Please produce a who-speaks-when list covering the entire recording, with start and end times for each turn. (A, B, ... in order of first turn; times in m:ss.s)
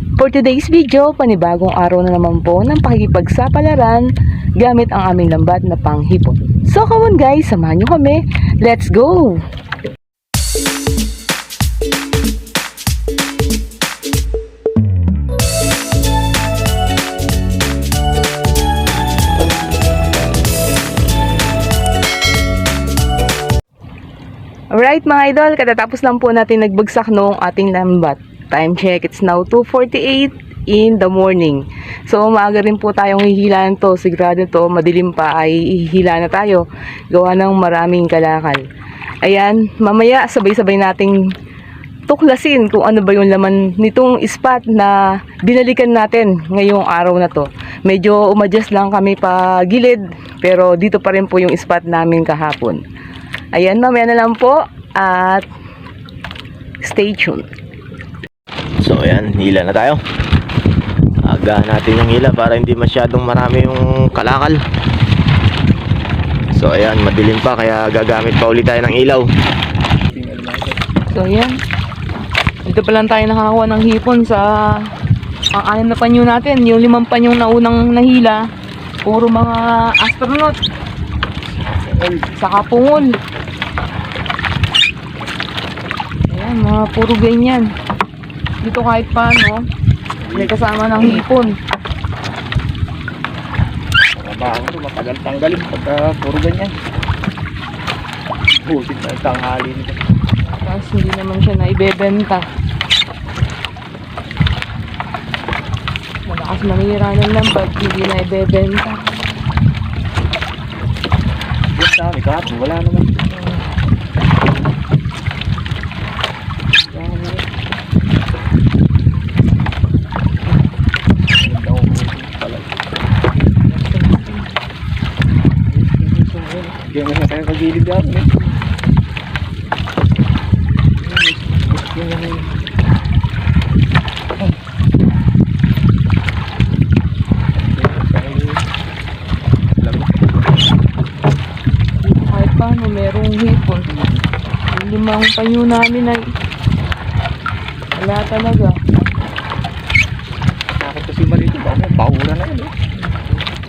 0:00.2-0:09.4 A
0:24.7-0:38.7 A
0:39.2-0:41.2 A
0:42.1-0:52.8 A
0:53.5-0:55.5 A
0:56.8-0:57.5 A
0:58.8-1:00.0 B
1:01.2-1:04.6 B
1:06.5-1:09.3 B
1:10.1-1:10.8 C
1:11.1-1:11.6 A
1:12.7-1:14.9 A
1:15.5-1:18.4 A
1:19.0-1:20.6 A
1:21.6-1:22.3 C
1:22.3-1:23.2 A
1:26.3-1:27.7 A
1:28.6-1:29.6 A
1:30.2-1:30.7 C
1:30.3-1:31.6 A
1:34.2-1:36.7 C
1:38.6-1:40.0 C
1:40.5-1:42.4 A
1:46.3-1:49.0 A
1:51.8-1:53.2 C
1:56.6-1:57.4 C
2:01.4-2:02.8 C
2:03.7-2:04.4 A
2:05.7-2:08.3 C
2:11.1-2:12.5 C
2:17.6-2:18.6 C
2:19.8-2:20.3 C
2:22.0-2:23.9 A
2:24.7-2:26.3 A
2:27.9-2:28.8 A
2:30.8-2:32.7 C